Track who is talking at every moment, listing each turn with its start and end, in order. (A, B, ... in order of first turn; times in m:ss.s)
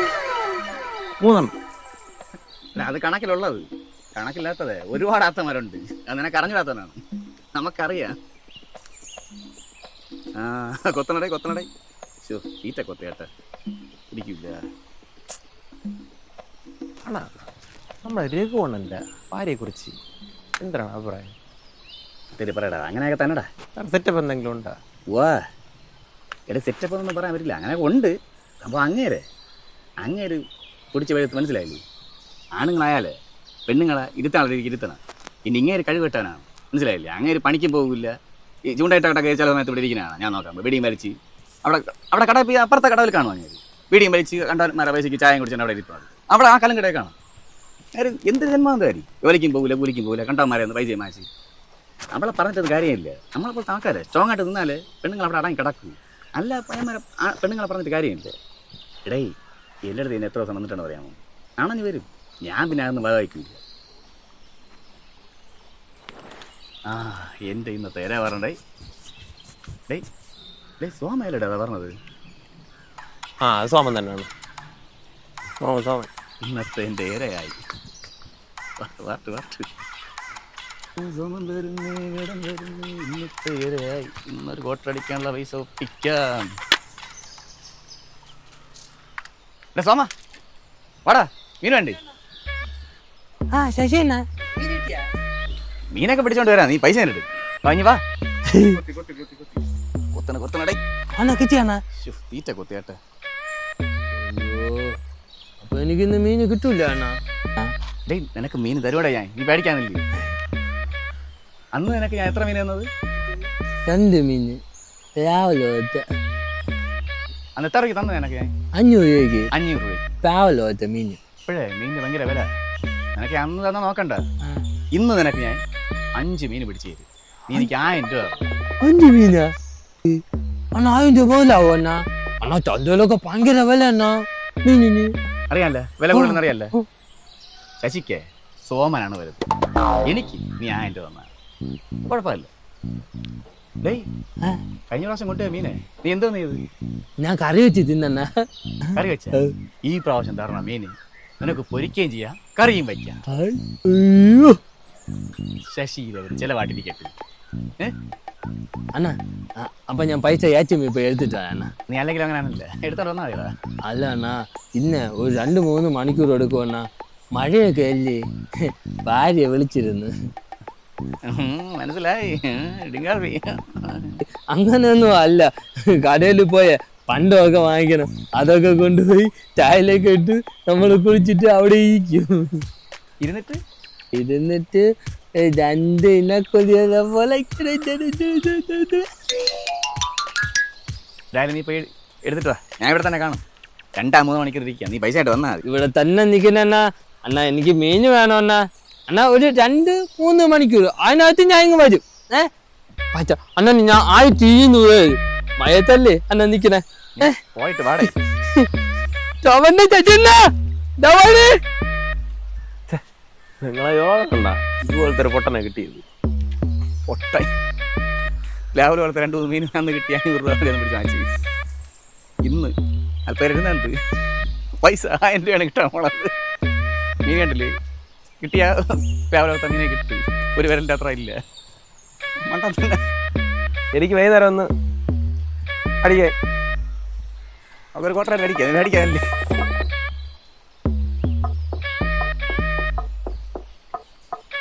0:01.2-0:01.5 A
0:02.8-0:03.6 B
0:04.2-0:07.0 B
0:07.6-0:08.1 B
0:10.4-0:11.7 B
0:12.2-0:13.3 B
0:14.1-0:14.6 B
0:17.0-0:17.4 A
0:18.0-0:20.0 A
0:20.6-0:21.3 A
0:22.4-0:23.4 B
0:23.8-0:24.8 A
0:25.1-0:25.4 B
0:26.5-0:29.2 B
0:30.0-0:30.4 B
0:30.9-0:31.8 B
0:32.6-0:33.1 B
0:33.7-0:38.1 B
0:38.7-0:47.1 B
0:47.9-0:51.3 B
0:52.1-0:58.3 B
0:59.9-1:03.6 B
1:06.9-1:08.6 B
1:10.8-1:11.9 B
1:13.4-1:14.3 A
1:15.6-1:16.1 A
1:16.4-1:17.6 B
1:18.8-1:19.7 B
1:21.0-1:26.5 B
1:29.7-1:30.1 B
1:31.0-1:32.0 B
1:33.5-1:35.0 C
1:35.9-1:38.0 B
1:38.5-1:38.8 C
1:38.7-1:39.6 B
1:40.1-1:40.8 B
1:41.2-1:41.8 C
1:42.0-1:43.0 B
1:44.1-1:45.0 C
1:45.6-1:47.7 C
1:48.1-1:50.0 B
1:51.7-1:52.9 B
1:53.9-1:54.6 C
1:55.2-1:56.0 C
1:57.6-1:58.5 B
1:58.8-1:59.5 C
1:59.5-2:00.1 B
2:00.2-2:01.2 C
2:01.5-2:02.5 B
2:03.2-2:04.2 B
2:04.9-2:05.6 B
2:06.2-2:08.4 B
2:08.8-2:09.5 C
2:10.8-2:15.1 C
2:15.5-2:16.7 B
2:16.1-2:16.8 C
2:17.8-2:19.4 B
2:20.0-2:21.3 B
2:22.1-2:22.5 B
2:24.9-2:26.6 B
2:27.2-2:28.3 C
2:28.9-2:29.5 C
2:29.0-2:33.2 B
2:33.3-2:34.6 C
2:35.7-2:37.1 B
2:38.9-2:41.7 C
2:41.9-2:43.5 B
2:43.9-2:46.8 C
2:47.4-2:48.2 C
2:49.0-2:50.1 C
2:51.3-2:54.0 B
2:54.5-2:55.5 C
2:56.0-3:02.6 C
3:03.2-3:03.6 B
3:04.1-3:04.8 C
3:05.4-3:09.0 C
3:11.3-3:13.4 B
3:14.0-3:15.6 B
3:15.6-3:22.5 C
3:23.1-3:27.4 C
3:27.2-3:28.2 B
3:28.0-3:28.7 C
3:29.4-3:30.4 C
3:31.0-3:31.5 C
3:33.6-3:36.0 A
3:37.1-3:37.5 B
3:38.7-3:41.2 B
3:42.4-3:42.7 B
3:43.3-3:43.9 B
3:44.8-3:46.3 B
3:47.2-3:47.7 B
3:48.4-3:51.4 B
3:52.5-3:53.0 B
3:53.9-3:54.7 A
3:56.0-3:56.3 A
3:57.9-3:59.2 B